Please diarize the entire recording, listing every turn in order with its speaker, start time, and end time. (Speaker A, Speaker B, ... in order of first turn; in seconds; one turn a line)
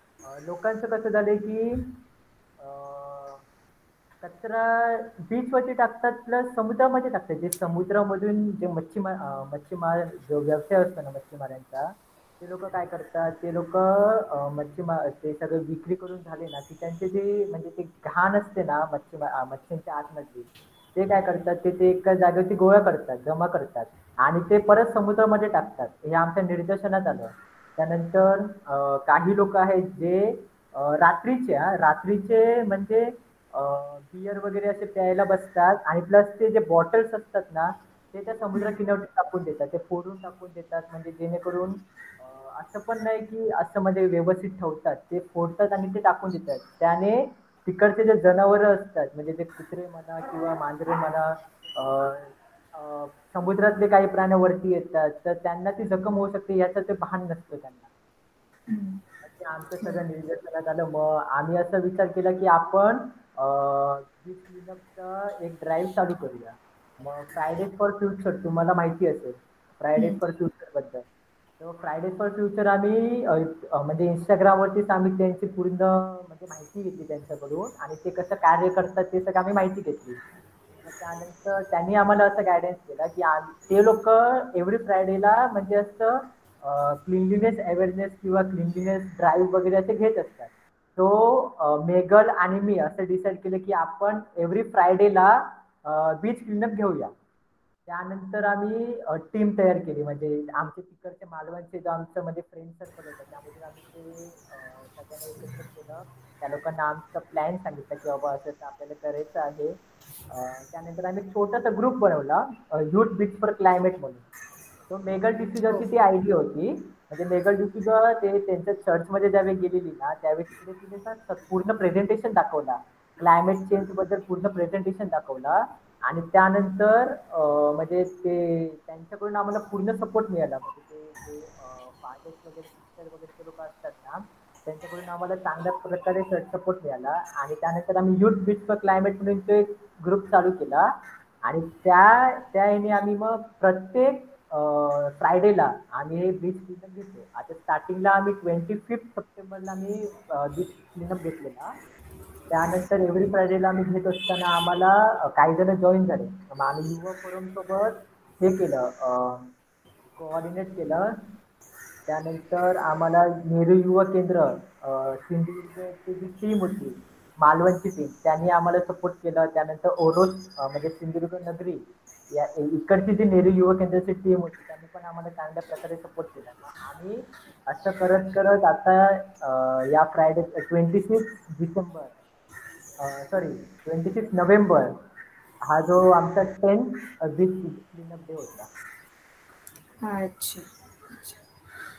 Speaker A: 0.2-2.0
Speaker A: 2.6-3.4
Speaker A: 4.2-57.9
Speaker B: 58.7-59.0
Speaker A: 59.2-71.0
Speaker B: 70.0-70.2
Speaker A: 71.6-80.2
Speaker A: 80.8-97.1
Speaker A: 97.9-109.8
Speaker A: 110.3-114.2
Speaker A: 114.9-140.9
Speaker B: 115.7-115.9
Speaker A: 141.4-151.7
Speaker A: 152.5-159.5
Speaker A: 160.2-161.1
Speaker A: 162.1-182.1
Speaker A: 183.0-184.9
Speaker A: 185.7-188.7
Speaker B: 190.0-191.4